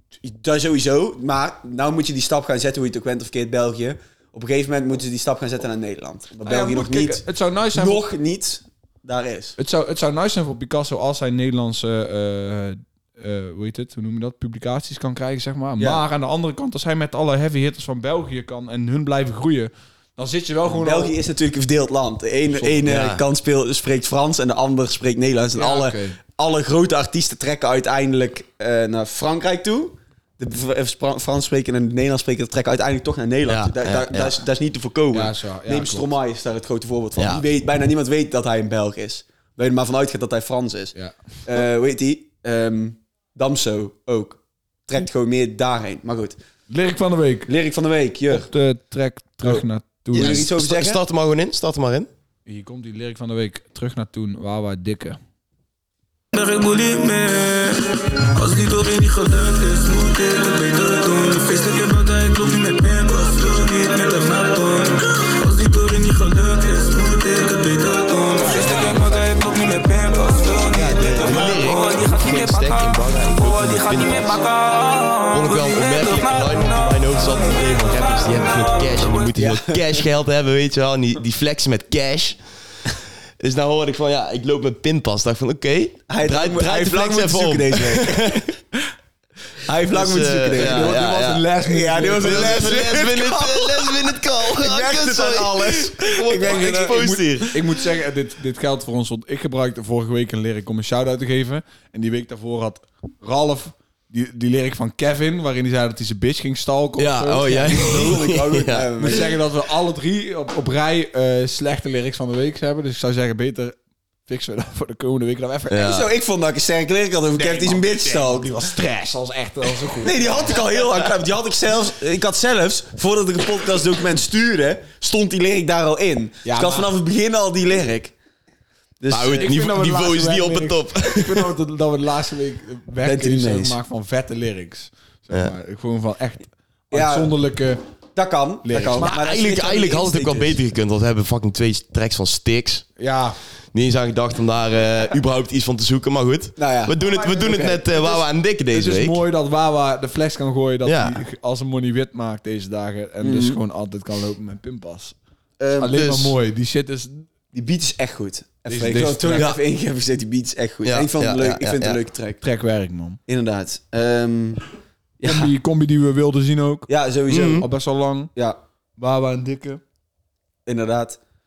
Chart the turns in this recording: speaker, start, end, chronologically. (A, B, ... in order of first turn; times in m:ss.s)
0:00.2-0:09.6 A
0:06.4-0:08.0 B
0:09.6-0:21.1 B
0:20.6-0:46.4 A
0:22.8-0:23.2 C
0:25.6-0:26.2 B
0:33.4-0:34.4 C
0:35.1-0:36.1 B
0:37.2-0:37.4 C
0:46.7-0:47.5 B
0:47.5-0:48.5 A
0:48.3-0:50.5 B
0:50.1-0:51.0 A
0:50.1-0:52.1 C
0:52.4-0:55.2 B
0:56.3-1:19.3 D
1:08.4-1:09.2 B
1:10.8-1:14.4 C
1:15.3-1:22.4 C
1:19.4-1:20.0 A
1:23.4-1:28.4 C
1:26.1-1:28.9 A
1:29.6-1:37.5 A
1:29.9-1:31.4 C
1:30.5-1:33.2 B
1:32.2-1:37.8 C
1:37.5-1:48.3 B
1:47.0-1:49.2 C
1:47.7-1:49.3 A
1:49.0-1:53.8 B
1:54.3-1:56.0 B
1:55.7-1:56.1 C
1:55.8-1:58.5 A
1:57.4-2:00.8 B
2:00.0-2:08.1 A
2:06.4-2:06.9 B
2:09.0-2:09.6 A
2:09.1-2:11.5 C
2:09.4-2:17.8 B
2:13.0-2:13.8 A
2:16.9-2:17.3 A
2:18.1-2:20.6 A
2:18.6-2:19.2 B
2:19.0-2:22.8 C
2:23.0-2:23.4 B
2:23.7-2:29.2 C
2:26.6-2:27.8 A
2:27.0-2:35.1 B
2:30.8-2:31.2 C
2:33.2-2:33.6 A
2:35.6-2:36.3 A
2:35.8-2:37.3 B
2:37.5-2:42.4 A
2:38.7-2:39.5 B
2:39.3-2:39.6 C
2:40.8-2:42.0 C
2:42.4-2:43.2 B
2:43.3-2:44.6 A
2:45.2-2:45.5 A
2:45.2-2:46.9 B
2:46.9-2:47.7 A
2:47.3-2:47.6 C
2:47.5-2:48.3 B
2:49.0-2:49.8 B
2:50.6-2:51.2 A